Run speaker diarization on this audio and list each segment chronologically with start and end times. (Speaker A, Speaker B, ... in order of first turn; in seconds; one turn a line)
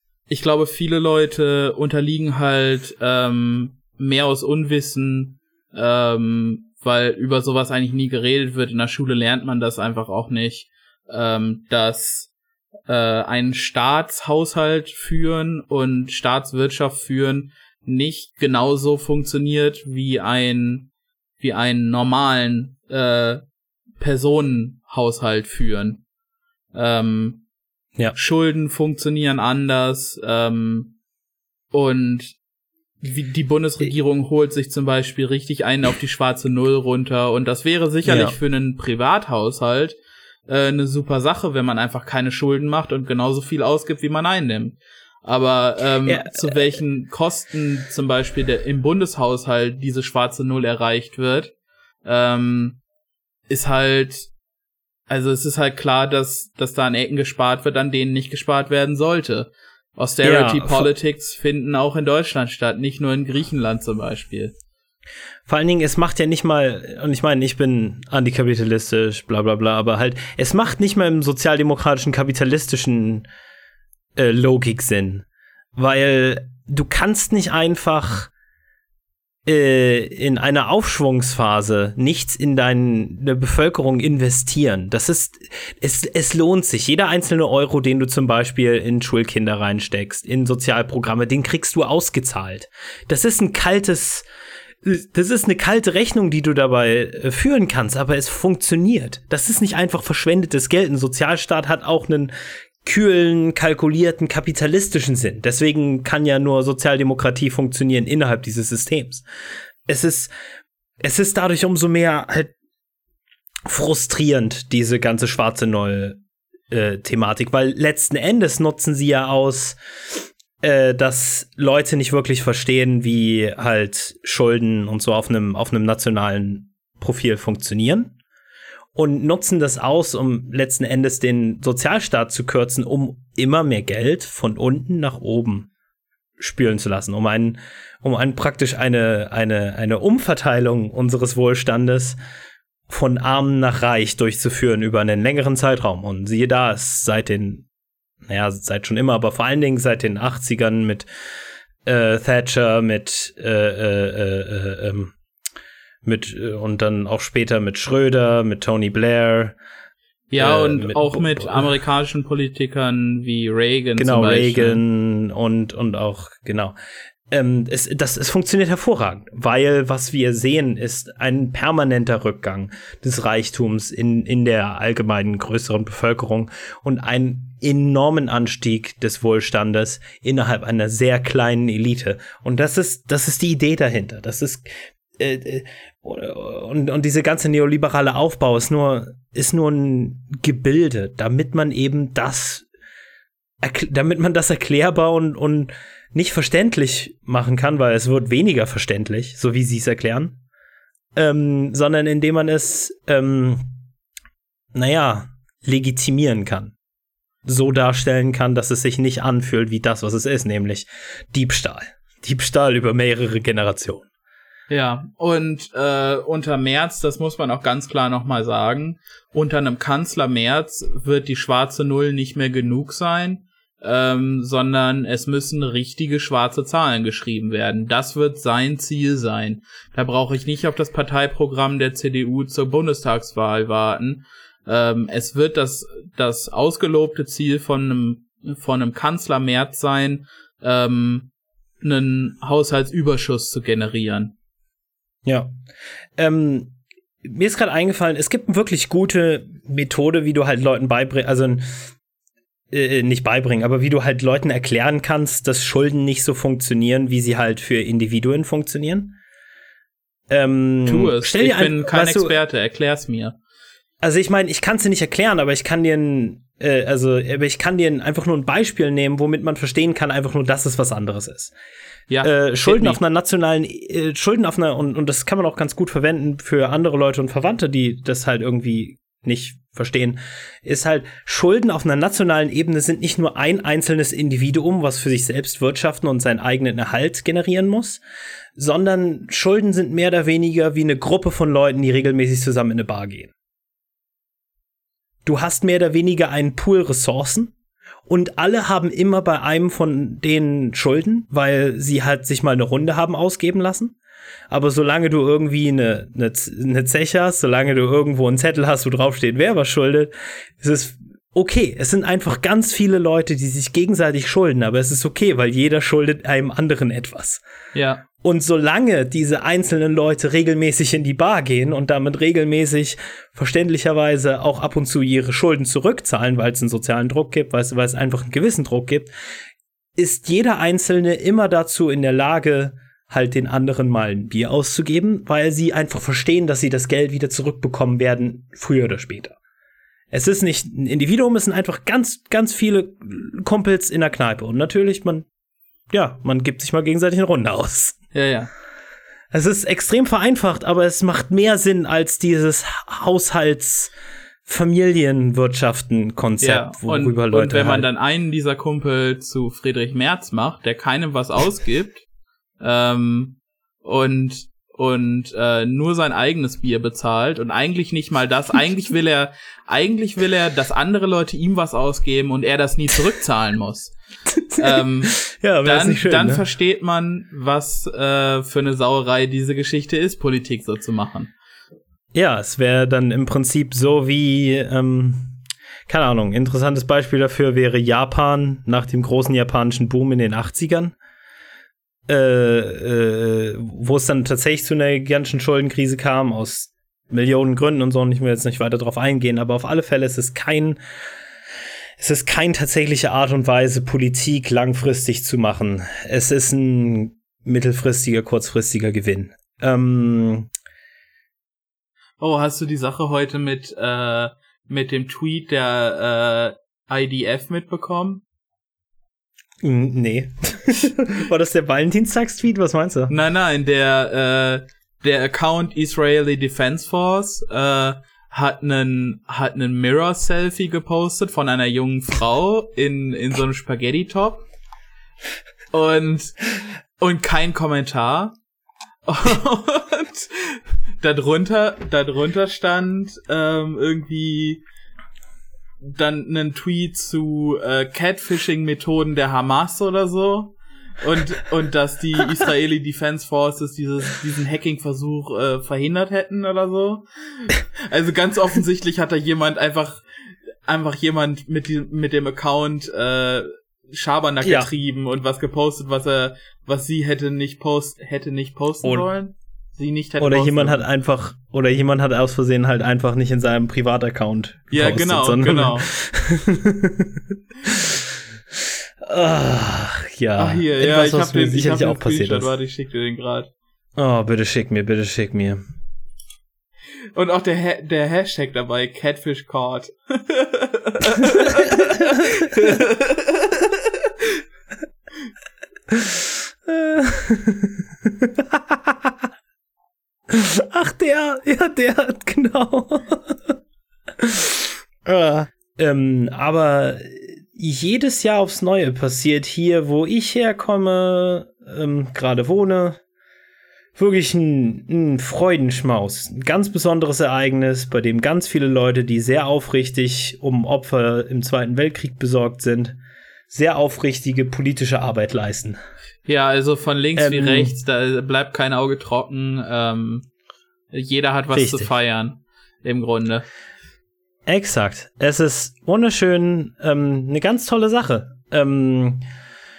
Speaker A: 0.3-12.3
Speaker A: 12.9-20.9
Speaker A: 21.4-23.4
Speaker A: 24.0-26.0
Speaker A: 26.7-27.4
Speaker A: 28.1-30.9
Speaker A: 31.7-32.4
Speaker A: 33.0-51.5
Speaker B: 38.0-38.4
Speaker B: 46.1-46.8
Speaker A: 52.0-52.8
Speaker A: 53.5-54.3
Speaker A: 55.1-64.5
Speaker B: 60.2-60.9
Speaker B: 65.5-73.3
Speaker B: 74.2-75.2
Speaker B: 75.8-78.3
Speaker B: 79.5-94.2
Speaker B: 94.8-102.3
Speaker B: 102.8-109.2
Speaker B: 109.9-110.3
Speaker B: 111.0-112.5
Speaker B: 113.7-116.2
Speaker B: 116.7-119.8
Speaker B: 120.6-128.1
Speaker B: 128.9-135.7
Speaker B: 136.4-142.2
Speaker B: 142.9-147.7
Speaker B: 148.3-151.1
Speaker B: 151.9-155.1
Speaker B: 156.0-159.6
Speaker A: 160.3-164.8
Speaker B: 160.4-161.7
Speaker B: 164.0-166.8
Speaker B: 167.3-184.7
Speaker B: 185.2-192.7
Speaker B: 193.6-200.4
Speaker B: 201.2-203.7
Speaker B: 204.8-206.7
Speaker B: 207.4-214.1
Speaker A: 214.7-241.3
Speaker A: 241.8-244.3
Speaker B: 246.2-251.6
Speaker B: 252.7-259.2
Speaker B: 260.3-262.4
Speaker A: 260.9-263.4
Speaker B: 264.0-271.5
Speaker A: 272.1-273.0
Speaker B: 272.2-288.0
Speaker B: 288.6-293.3
Speaker B: 295.2-297.5
Speaker B: 298.1-303.9
Speaker B: 304.5-317.4
Speaker A: 317.7-318.0
Speaker B: 318.2-329.1
Speaker B: 330.0-339.4
Speaker B: 340.1-345.2
Speaker B: 345.9-348.0
Speaker A: 348.1-348.5
Speaker B: 349.3-353.9
Speaker B: 354.5-357.9
Speaker A: 356.4-362.0
Speaker A: 362.6-373.9
Speaker B: 374.4-376.4
Speaker A: 374.6-381.3
Speaker B: 382.1-385.4
Speaker B: 385.9-390.9
Speaker B: 392.1-400.8
Speaker B: 402.0-410.5
Speaker A: 412.2-418.2
Speaker B: 419.6-423.1
Speaker A: 423.1-434.5
Speaker A: 435.7-436.4
Speaker A: 437.0-438.4
Speaker A: 439.1-444.6
Speaker A: 445.8-460.0
Speaker A: 460.7-470.8
Speaker B: 464.4-464.7
Speaker B: 470.2-478.0
Speaker A: 474.7-475.9
Speaker B: 479.1-482.5
Speaker A: 480.4-483.5
Speaker B: 484.0-485.6
Speaker A: 487.1-494.4
Speaker B: 491.4-492.5
Speaker B: 495.9-499.1
Speaker B: 500.3-503.6
Speaker B: 504.2-513.0
Speaker B: 514.0-523.0
Speaker B: 523.5-525.8
Speaker A: 526.3-530.3
Speaker B: 527.2-527.8
Speaker A: 530.9-533.5
Speaker B: 531.5-531.9
Speaker B: 534.5-539.2